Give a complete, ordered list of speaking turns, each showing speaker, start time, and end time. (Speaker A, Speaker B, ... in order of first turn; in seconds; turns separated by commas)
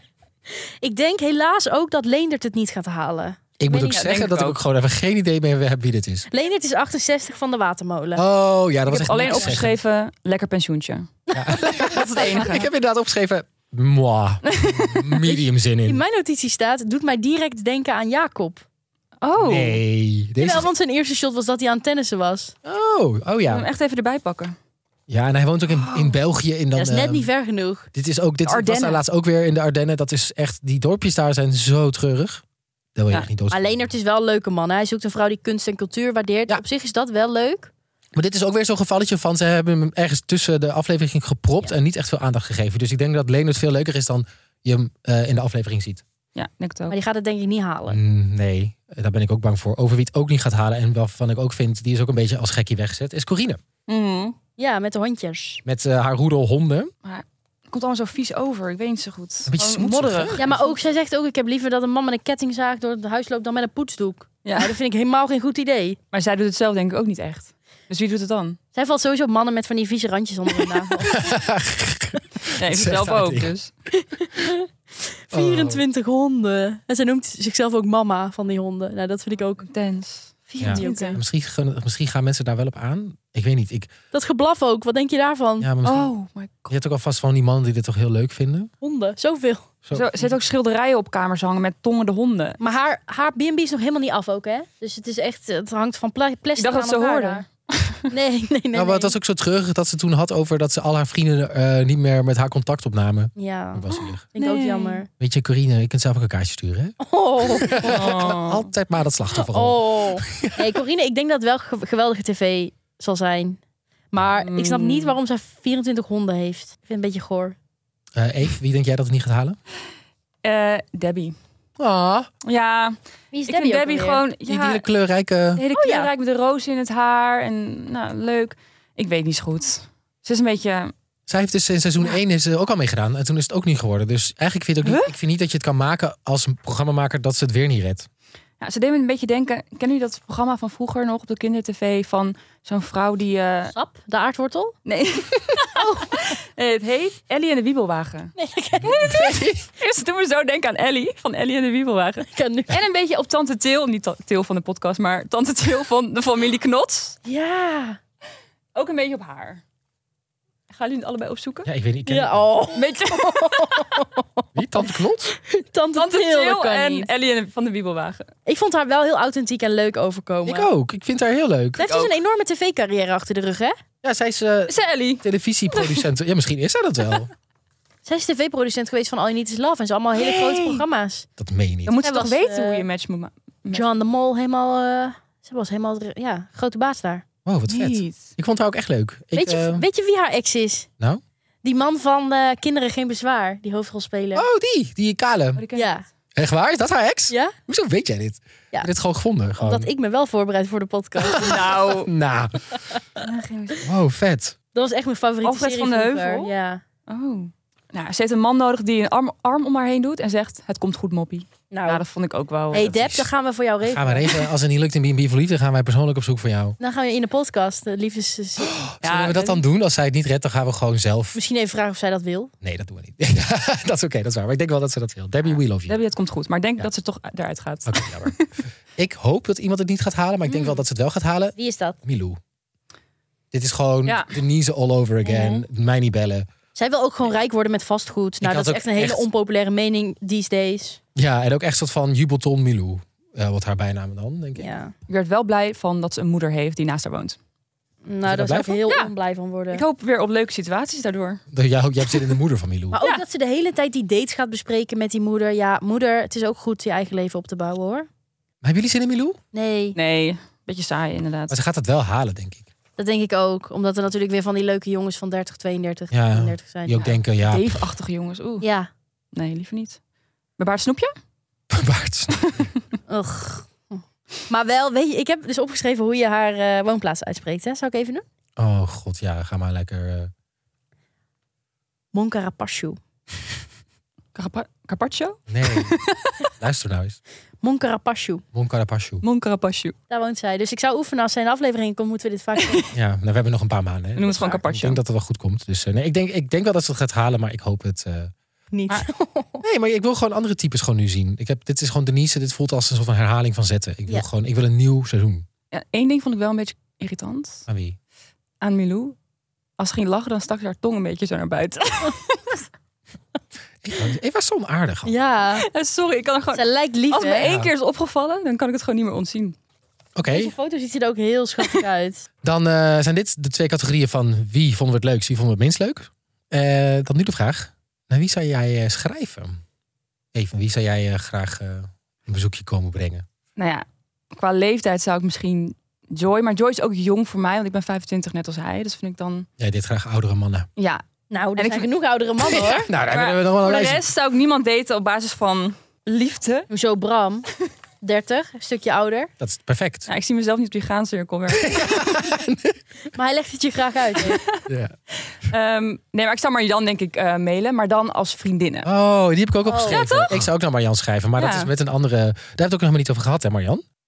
Speaker A: 0.8-4.0, Speaker B: 3.6-6.3, Speaker C: 3.9-4.6, Speaker A: 6.3-8.2, Speaker B: 8.2-9.8, Speaker C: 8.9-11.1, Speaker A: 11.3-12.3, Speaker B: 11.3-16.0, Speaker C: 11.7-12.6, Speaker C: 14.5-15.0, Speaker A: 15.2-18.6, Speaker C: 19.2-19.8, Speaker B: 19.4-20.7, Speaker A: 20.4-22.5, Speaker B: 22.6-23.7, Speaker C: 23.5-24.6, Speaker B: 25.1-27.3, Speaker C: 25.7-26.1, Speaker A: 26.8-27.9, Speaker B: 27.9-32.4, Speaker C: 28.4-29.0, Speaker B: 33.0-33.9, Speaker A: 33.5-37.7, Speaker B: 38.1-46.0, Speaker C: 46.4-47.0, Speaker A: 46.9-48.0, Speaker B: 47.9-53.6, Speaker C: 53.9-54.2, Speaker A: 54.1-55.6, Speaker B: 55.6-56.9, Speaker C: 57.0-60.6, Speaker B: 59.5-60.5, Speaker A: 60.3-66.0, Speaker C: 64.4-64.7, Speaker C: 66.1-68.6, Speaker A: 68.7-71.3, Speaker B: 71.1-73.5, Speaker C: 72.5-73.7, Speaker A: 73.9-79.6, Speaker B: 75.3-75.8, Speaker C: 79.6-81.2, Speaker B: 80.6-83.9, Speaker A: 80.6-81.2, Speaker A: 84.1-85.7, Speaker B: 85.6-86.1, Speaker C: 85.8-86.7, Speaker B: 86.7-88.7, Speaker A: 88.8-89.7, Speaker B: 89.8-90.3, Speaker C: 89.9-92.6, Speaker A: 92.6-97.4, Speaker C: 96.6-98.0, Speaker A: 98.1-99.1, Speaker B: 98.7-104.2, Speaker A: 103.3-105.1, Speaker C: 103.9-105.0, Speaker B: 105.2-110.6, Speaker A: 107.0-108.3, Speaker C: 107.8-108.7, Speaker A: 109.4-113.6, Speaker A: 114.1-117.5, Speaker C: 114.4-115.2, Speaker B: 118.2-119.6, Speaker C: 120.4-121.4, Speaker B: 121.8-122.3, Speaker C: 122.4-123.0, Speaker A: 123.3-124.2, Speaker C: 123.5-124.8, Speaker B: 124.5-125.6, Speaker C: 125.5-130.9, Speaker A: 125.7-126.1, Speaker B: 131.3-138.1, Speaker C: 134.8-135.1, Speaker C: 138.6-143.7, Speaker A: 143.7-144.7, Speaker C: 144.8-157.2, Speaker A: 145.5-146.2, Speaker A: 148.3-149.5, Speaker B: 148.8-149.6, Speaker A: 152.3-152.8, Speaker A: 157.2-158.0, Speaker C: 158.7-159.6, Speaker C: 160.7-161.7, Speaker B: 161.7-162.6, Speaker A: 162.1-164.5, Speaker C: 162.8-164.0, Speaker B: 164.6-165.3, Speaker A: 165.3-167.1, Speaker C: 165.9-168.3, Speaker A: 168.4-170.7, Speaker B: 170.4-172.1, Speaker A: 171.8-173.8, Speaker B: 174.0-177.3, Speaker C: 174.7-176.1, Speaker A: 178.0-181.3, Speaker C: 180.2-180.8, Speaker B: 181.4-181.9, Speaker C: 181.8-183.8, Speaker A: 182.0-182.8, Speaker A: 183.7-187.2, Speaker B: 187.4-189.8, Speaker C: 187.7-188.3, Speaker A: 189.3-190.9, Speaker A: 191.6-194.4, Speaker B: 194.3-195.6, Speaker C: 195.6-195.9, Speaker A: 195.7-196.0, Speaker B: 196.3-199.9, Speaker A: 199.6-201.5, Speaker B: 201.2-202.8, Speaker C: 201.3-202.1, Speaker A: 202.7-203.0, Speaker C: 203.2-203.8, Speaker B: 203.8-204.6, Speaker A: 204.7-206.8, Speaker C: 205.4-206.5, Speaker C: 207.1-213.0, Speaker A: 211.7-212.0, Speaker A: 212.7-214.3, Speaker B: 212.8-213.3, Speaker B: 213.8-216.8, Speaker A: 216.8-218.8, Speaker B: 218.6-221.4, Speaker C: 219.0-219.6, Speaker A: 221.3-222.5, Speaker B: 222.6-226.0, Speaker C: 225.8-228.5, Speaker B: 227.9-228.3, Speaker B: 229.0-232.4, Speaker A: 231.6-232.0, Speaker B: 233.5-236.5, Speaker C: 234.1-234.3, Speaker A: 235.2-235.6, Speaker A: 236.7-241.0, Speaker B: 238.4-239.2, Speaker B: 241.1-244.7, Speaker A: 244.6-244.9, Speaker C: 245.1-247.4, Speaker A: 248.0-249.8, Speaker B: 248.2-248.8, Speaker C: 249.7-251.4, Speaker B: 251.5-253.0, Speaker A: 252.9-258.1, Speaker B: 258.6-259.4, Speaker A: 259.5-259.9, Speaker C: 259.9-261.6, Speaker B: 261.5-262.7, Speaker A: 263.0-267.0, Speaker B: 266.1-267.8, Speaker C: 267.0-268.6, Speaker A: 268.6-268.9, Speaker C: 269.3-270.0, Speaker C: 270.6-271.1, Speaker B: 271.7-272.5, Speaker C: 272.4-272.6, Speaker A: 273.1-278.2, Speaker B: 278.6-280.3, Speaker A: 282.1-283.0, Speaker C: 284.3-286.5, Speaker B: 285.5-285.9, Speaker B: 286.6-287.2, Speaker A: 287.6-288.4, Speaker B: 288.5-289.2, Speaker C: 289.2-289.9, Speaker A: 290.1-292.9, Speaker B: 292.9-298.3, Speaker C: 294.2-295.0, Speaker A: 298.7-299.6, Speaker B: 299.6-305.4, Speaker C: 305.7-307.6, Speaker B: 307.7-308.0, Speaker C: 308.6-309.1, Speaker C: 309.8-312.6, Speaker B: 313.8-315.1, Speaker A: 315.1-315.6, Speaker C: 315.6-319.6, Speaker A: 316.5-317.5, Speaker B: 317.4-317.7, Speaker B: 320.1-320.5, Speaker A: 320.2-322.3, Speaker B: 322.4-329.6, Speaker B: 330.3-333.2, Speaker C: 333.6-339.5, Speaker B: 339.6-340.7, Speaker C: 340.8-341.0, Speaker A: 341.3-342.8, Speaker C: 341.6-341.9, Speaker B: 342.5-344.0, Speaker C: 342.6-346.7, Speaker A: 346.7-347.5, Speaker A: 348.0-349.3, Speaker B: 349.4-350.1, Speaker C: 350.1-351.7, Speaker B: 351.6-352.8, Speaker A: 353.1-354.4, Speaker C: 354.3-354.6, Speaker B: 354.7-354.9, Speaker C: 355.4-358.9, Speaker B: 358.8-363.8, Speaker A: 359.6-360.3, Speaker C: 359.9-360.4, Speaker C: 361.4-361.7